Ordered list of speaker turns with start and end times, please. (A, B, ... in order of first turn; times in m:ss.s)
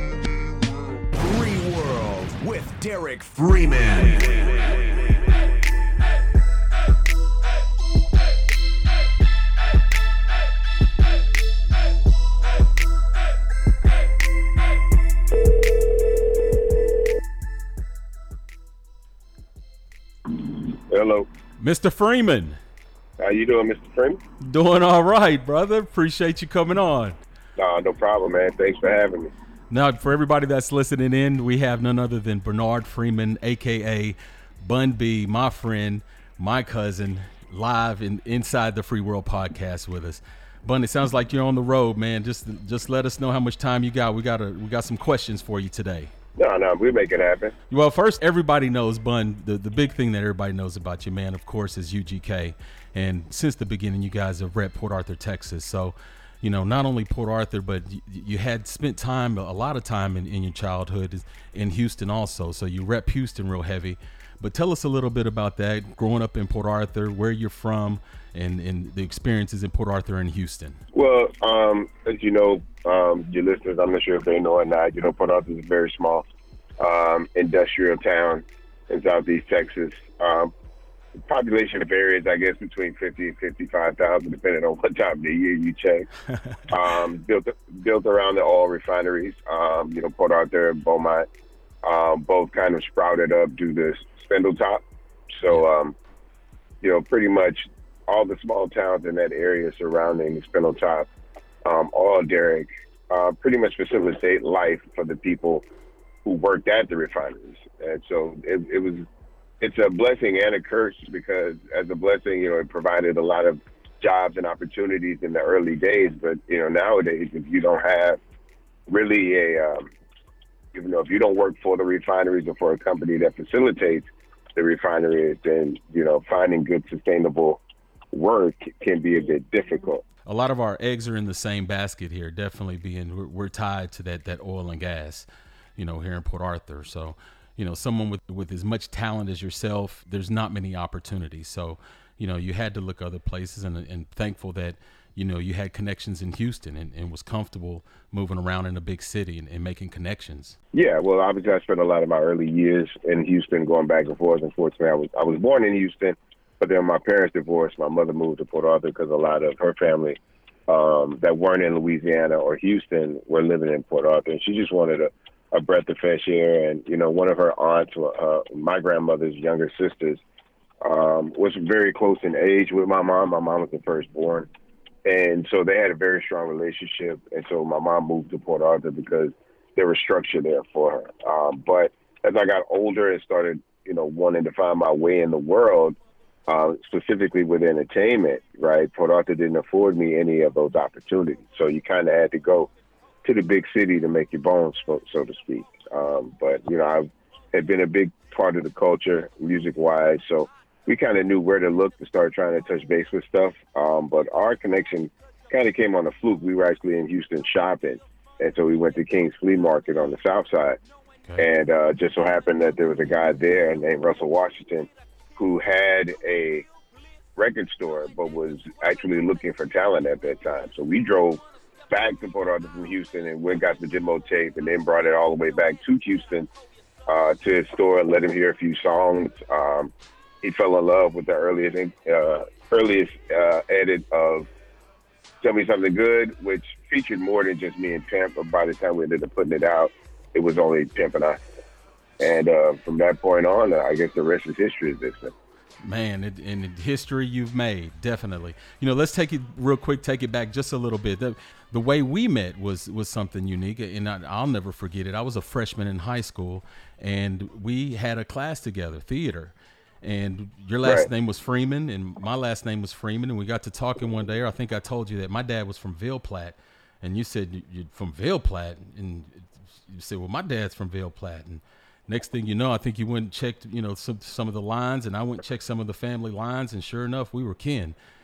0:01.1-0:05.1 A
0:20.4-0:21.3 B
0:21.6-0:22.6 C
0:23.2-0:24.2 B
0:24.4-0:27.2 C
0:27.6-0:29.3 B
0:29.7-0:46.1 C
0:46.4-0:47.5 B
0:47.7-1:10.8 C
1:10.9-1:16.2 B
1:16.8-1:20.5 B
1:21.2-1:26.1 B
1:26.7-1:31.3 B
1:31.8-1:36.0 B
1:36.8-1:41.1 B
1:41.6-1:45.7 B
1:46.2-1:49.1 B
1:49.6-1:58.2 B
1:58.9-1:59.9 B
2:00.7-2:07.6 B
2:08.1-2:10.0 B
2:10.2-2:30.6 C
2:30.7-2:50.2 B
2:50.8-2:54.5 B
2:55.0-3:06.0 B
3:06.5-3:12.7 B
3:13.2-3:30.8 B
3:31.2-3:31.5 C
3:31.4-3:36.6 B
3:37.4-3:46.5 B
3:47.0-3:54.5 B
3:55.4-4:01.4 B
4:02.2-4:05.3 B
4:05.8-4:37.9 C
4:20.8-4:21.1 B